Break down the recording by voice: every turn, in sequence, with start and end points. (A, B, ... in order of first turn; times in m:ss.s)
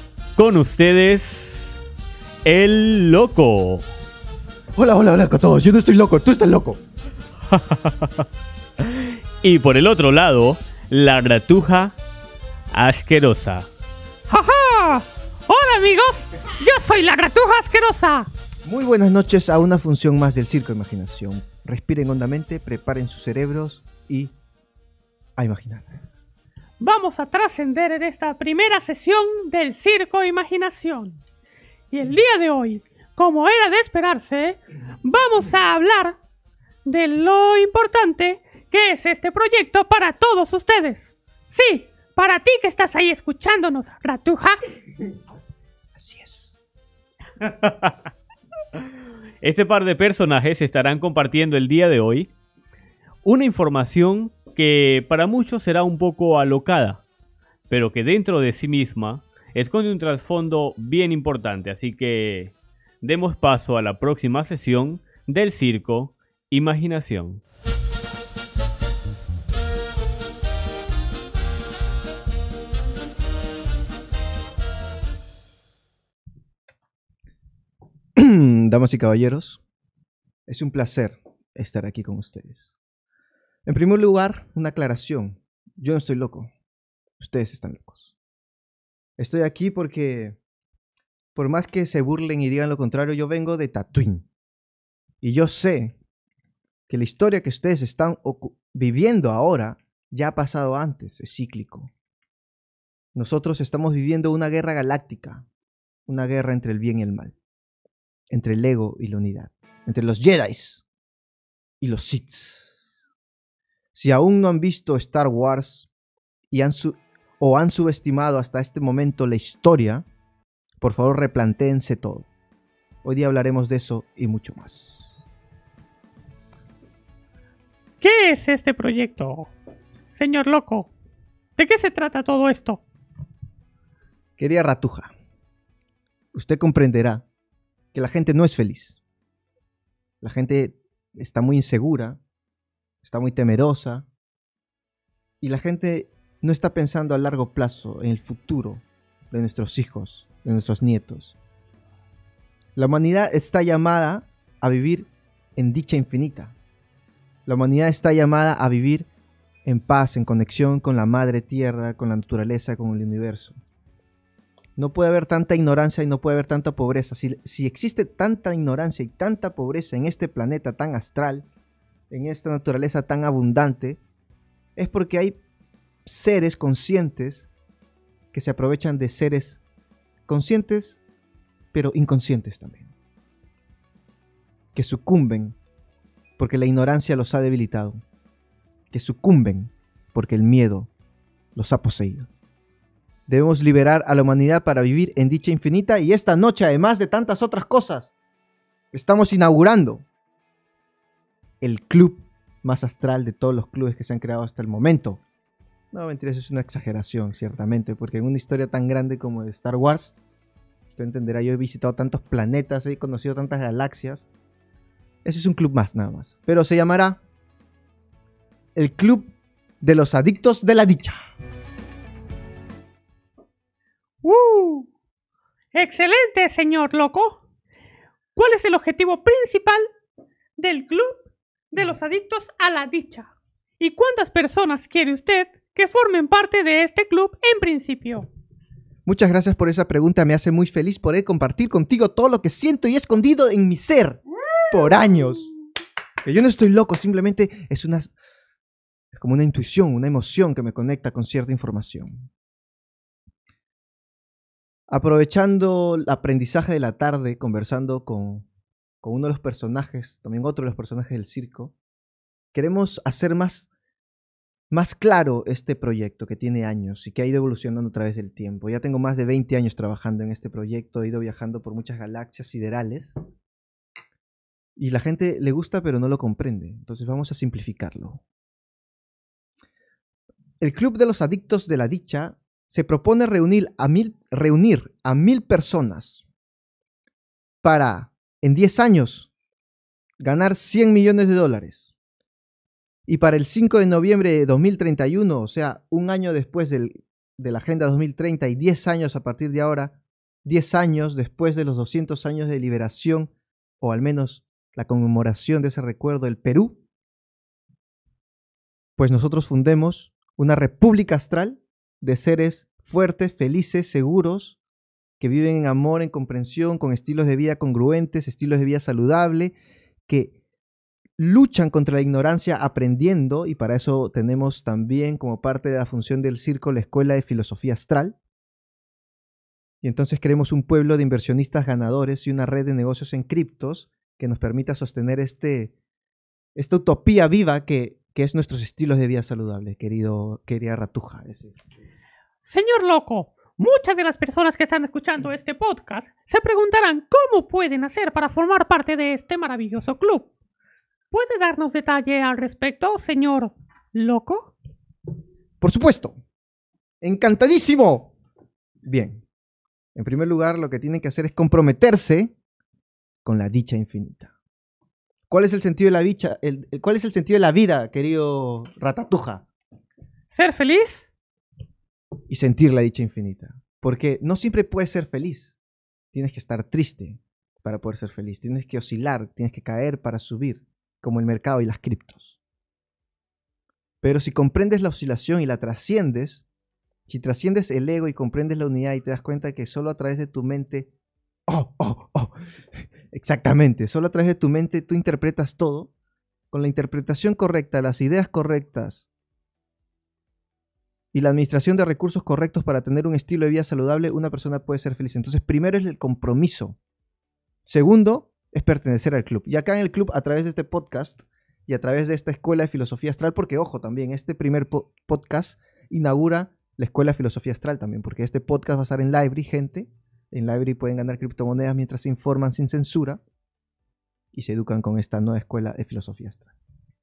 0:00.4-0:01.7 A
0:02.4-0:03.8 A
0:04.8-0:06.8 B
0:07.5-0:08.2 A
0:09.0-0:12.0 A
0:12.7-0:13.7 A
0:14.3-0:18.3 C
0:18.6-0:24.4 B
0:25.4-0:26.0 B
0:26.8-0:31.2 C
0:31.9-0:36.2 C
0:36.8-0:44.6 C
0:46.0-0:46.6 B
0:47.4-0:47.9 A
0:49.4-0:52.3 A
0:53.2-0:57.0 A
0:57.7-1:07.4 A
1:18.2-1:19.6 B
1:20.5-1:22.7 B
1:23.7-1:26.5 B
1:27.2-1:28.1 B
1:29.2-1:30.4 B
1:31.4-1:34.3 B
1:35.2-1:36.0 B
1:36.9-1:41.9 B
1:43.2-1:45.4 B
1:46.1-1:47.4 B
1:48.3-1:50.8 B
1:51.8-1:52.8 B
1:53.9-1:55.9 B
1:56.5-2:00.0 B
2:00.8-2:02.3 B
2:03.0-2:05.1 B
2:08.0-2:09.5 C
2:10.1-2:10.9 C
2:11.6-2:12.8 C
2:14.4-2:15.1 B
2:16.3-2:17.3 B
2:17.9-2:19.0 B
2:20.2-2:22.2 B
2:23.0-2:24.1 B
2:25.4-2:31.4 B
2:32.8-2:36.6 B
2:37.5-2:39.1 B
2:39.6-2:43.6 B
2:44.8-2:51.5 B
2:52.1-2:54.0 B
2:54.8-2:55.4 B
2:56.1-2:57.5 B
2:58.3-2:59.6 B
3:00.3-3:01.0 B
3:01.7-3:02.9 B
3:04.7-3:05.6 B
3:06.4-3:08.0 B
3:08.9-3:10.9 B
3:11.6-3:12.3 B
3:13.3-3:18.1 B
3:18.9-3:20.1 B
3:21.6-3:25.2 B
3:25.9-3:30.2 B
3:30.9-3:34.3 B
3:35.2-3:37.2 B
3:38.8-3:41.2 B
3:44.2-3:44.9 C
3:45.7-3:47.4 C
3:48.4-3:49.9 C
3:50.6-3:58.3 C
3:59.0-4:05.5 B
4:06.2-4:08.1 B
4:09.1-4:12.3 B
4:14.9-4:18.5 B
4:19.0-4:21.8 B
4:22.5-4:23.7 B
4:24.7-4:33.2 B
4:34.8-4:38.2 B
4:40.6-4:46.2 B
4:47.6-4:49.3 B
4:50.2-4:51.9 B
4:53.1-5:06.8 B
5:09.0-5:14.6 B
5:15.2-5:19.6 B
5:20.1-5:20.4 B
5:21.2-5:28.2 B
5:29.8-5:35.7 B
5:36.6-5:41.6 B
5:42.4-5:50.3 C
5:51.1-5:54.5 C
5:55.6-5:56.2 B
5:57.0-5:58.1 B
5:58.8-5:59.2 B
6:00.0-6:02.3 B
6:03.2-6:04.3 B
6:05.3-6:09.5 B
6:10.3-6:11.1 C
6:12.3-6:15.6 B
6:16.1-6:22.4 B
6:24.0-6:26.5 B
6:27.1-6:30.9 B
6:31.5-6:32.4 B
6:33.0-6:35.9 B
6:36.5-6:39.1 B
6:41.1-6:46.8 B
6:47.7-7:03.2 B
7:04.3-7:06.5 B